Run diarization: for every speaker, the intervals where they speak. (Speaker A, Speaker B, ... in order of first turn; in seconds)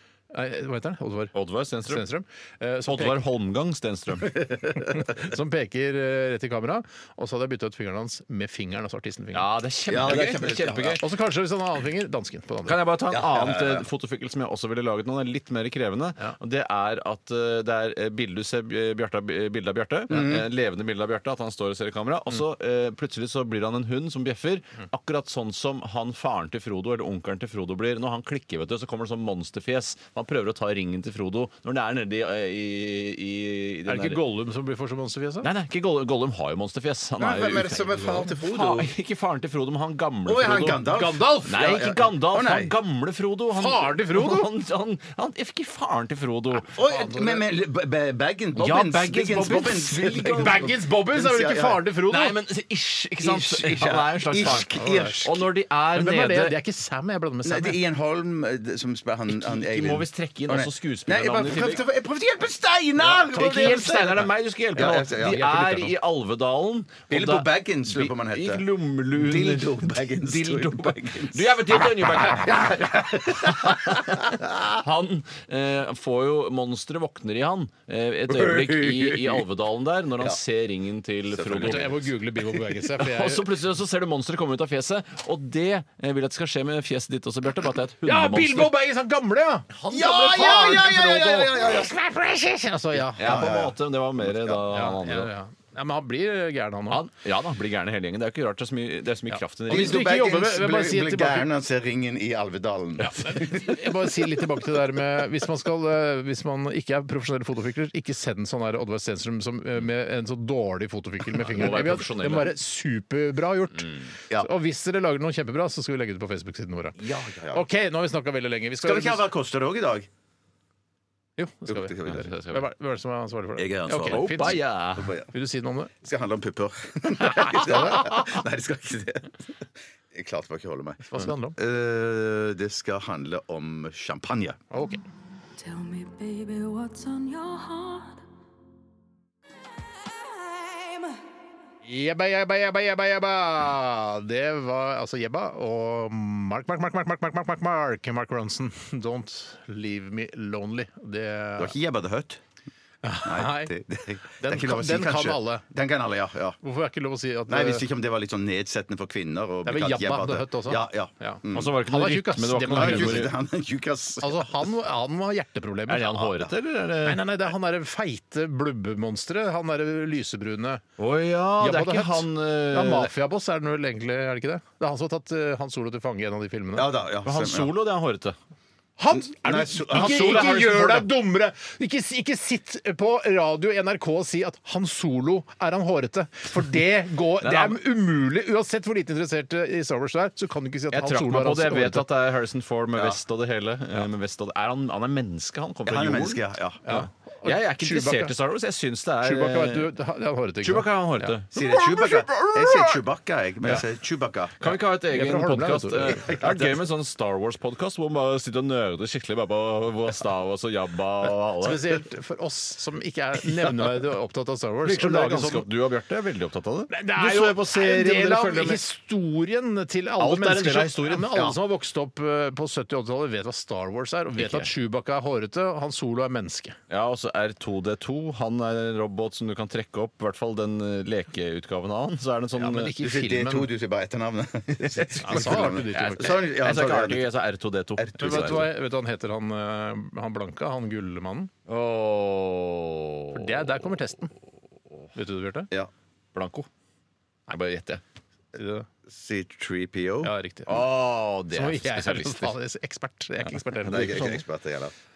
Speaker A: 0.3-3.2, 4.9-9.5, 11.0-12.8, 33.9-35.5, 40.9-41.6, 43.6-44.5, 46.8-47.4, 50.3-52.4, 54.7-55.2, 55.9-57.8, 65.3-65.6, 81.6-83.5, 88.0-93.5, 94.7-97.0, 99.3-101.5, 103.2-117.0, 117.5-119.3, 121.4-125.9, 127.3-128.0, 131.1-131.6, 134.7-135.0, 141.8-151.7, 153.0-153.8, 154.4-155.7, 156.6-157.9, 159.7-163.2, 164.2-166.1, 167.1-170.8, 171.6-176.9, 179.0-192.1, 196.8-198.3, 199.2-202.9, 204.7-206.4, 211.6-215.7, 216.9-226.8, 232.6-233.7, 235.2-236.4, 238.2-241.5, 243.3-244.3, 245.2-245.7, 248.6-248.9, 250.2-250.8, 251.5-254.4
Speaker B: 1.3-2.0, 2.9-4.4, 9.3-11.0, 12.7-34.2, 35.4-40.9, 41.5-46.7, 48.6-50.6, 52.1-54.7, 55.2-56.6, 59.3-61.8, 63.0-72.8, 73.6-74.2, 74.8-82.1, 83.0-88.7, 93.2-95.3, 96.9-100.0, 111.3-112.5, 113.8-114.1, 122.1-122.6, 124.0-125.1, 161.5-163.3, 165.9-167.2, 171.0-173.1, 177.2-178.4, 179.9-180.9, 187.4-187.8, 190.9-199.9, 200.6-201.5, 204.6-211.8, 214.8-218.8, 220.2-221.4, 224.4-224.7, 226.9-232.9, 235.3-238.7, 241.7-243.8, 246.3-246.7, 247.5-248.0, 250.7-252.5, 253.8-254.4
Speaker C: 9.9-11.0, 13.1-13.9, 20.1-20.4, 37.2-38.9, 40.3-42.7, 46.7-51.9, 53.2-55.5, 57.4-65.9, 67.1-74.6, 78.3-79.4, 81.3-82.0, 89.9-91.9, 93.2-94.6, 99.7-103.7, 117.0-117.6, 118.8-120.1, 121.7-122.3, 123.6-125.3, 126.0-129.4, 130.1-134.6, 151.6-152.4, 153.2-156.6, 157.5-161.8, 162.7-164.6, 166.1-166.5, 176.8-177.7, 179.1-181.1, 195.9-196.8, 201.5-204.6, 206.3-206.7, 221.3-221.6, 233.0-237.3, 238.0-238.7, 249.1-250.3, 253.9-254.9
Speaker D: 135.6-138.2